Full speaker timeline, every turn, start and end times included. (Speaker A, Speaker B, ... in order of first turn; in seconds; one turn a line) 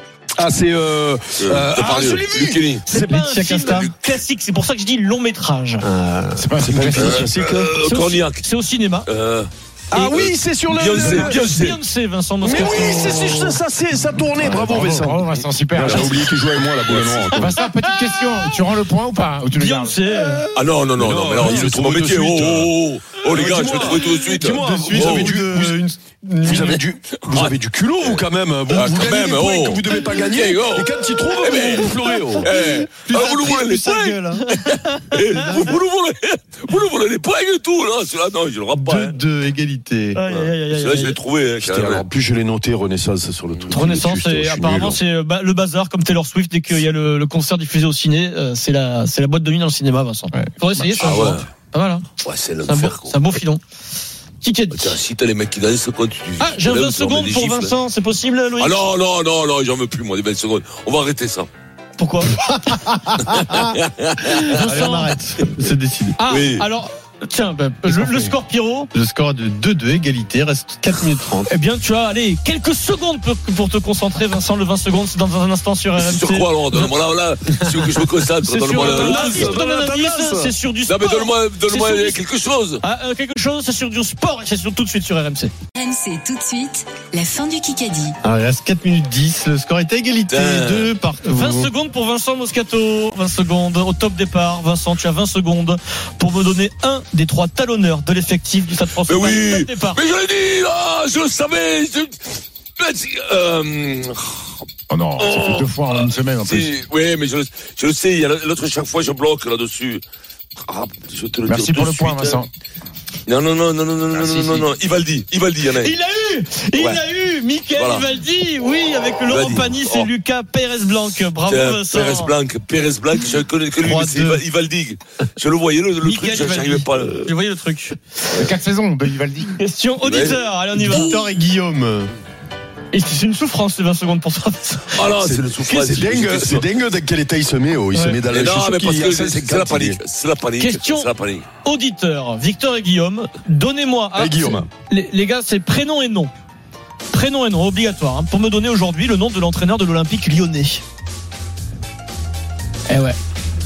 Speaker A: 0.4-3.1
Speaker B: 1.4-2.9
Speaker C: 2.9-5.9
Speaker D: 2.9-3.9
Speaker D: 5.8-6.5
Speaker E: 6.3-7.2
Speaker A: 6.6-7.7
Speaker B: 7.0-8.4
Speaker C: 7.8-9.1
Speaker B: 9.1-11.8
Speaker A: 9.9-11.4
Speaker C: 10.9-13.6
Speaker A: 12.4-17.5
Speaker E: 14.3-16.3
Speaker B: 15.9-16.2
Speaker B: 16.9-17.3
Speaker E: 17.4-20.0
Speaker C: 17.6-17.9
Speaker C: 19.6-20.5
Speaker B: 20.5-25.4
Speaker A: 21.0-25.8
Speaker D: 24.3-26.8
Speaker A: 26.4-32.5
Speaker B: 27.3-39.2
Speaker D: 32.2-34.5
Speaker D: 35.4-35.8
Speaker D: 38.7-40.2
Speaker C: 40.1-41.2
Speaker B: 40.3-42.0
Speaker A: 41.6-45.0
Speaker C: 43.7-52.1
Speaker B: 51.0-51.5
Speaker B: 52.2-53.4
Speaker C: 52.6-53.6
Speaker C: 54.4-55.0
Speaker B: 54.7-57.8
Speaker C: 56.4-58.8
Speaker B: 58.6-61.5
Speaker C: 62.0-62.4
Speaker D: 62.7-63.8
Speaker B: 63.3-64.4
Speaker D: 64.4-66.2
Speaker C: 64.5-65.1
Speaker C: 66.2-68.9
Speaker B: 66.3-66.7
Speaker D: 67.9-68.3
Speaker D: 68.9-71.5
Speaker C: 71.5-76.9
Speaker B: 76.0-79.6
Speaker C: 78.4-82.2
Speaker A: 78.7-80.5
Speaker B: 80.9-82.8
Speaker C: 82.8-85.5
Speaker F: 85.8-88.2
Speaker D: 88.2-91.7
Speaker B: 90.3-90.9
Speaker C: 91.3-100.0
Speaker B: 99.1-104.3
Speaker E: 104.9-106.7
Speaker B: 105.2-110.0
Speaker B: 110.7-112.5
Speaker E: 111.5-112.5
Speaker B: 113.3-115.9
Speaker E: 114.2-114.6
Speaker C: 115.8-122.3
Speaker B: 117.8-118.0
Speaker B: 119.3-120.1
Speaker B: 121.5-127.3
Speaker D: 123.8-124.4
Speaker C: 126.0-128.0
Speaker E: 128.3-129.6
Speaker C: 129.6-131.3
Speaker B: 130.0-130.4
Speaker D: 130.8-132.1
Speaker C: 132.9-134.9
Speaker B: 134.9-136.7
Speaker A: 135.2-140.0
Speaker C: 137.9-138.2
Speaker B: 138.3-141.5
Speaker C: 140.6-141.1
Speaker C: 141.6-146.3
Speaker A: 144.2-144.7
Speaker C: 147.1-150.8
Speaker C: 152.9-153.2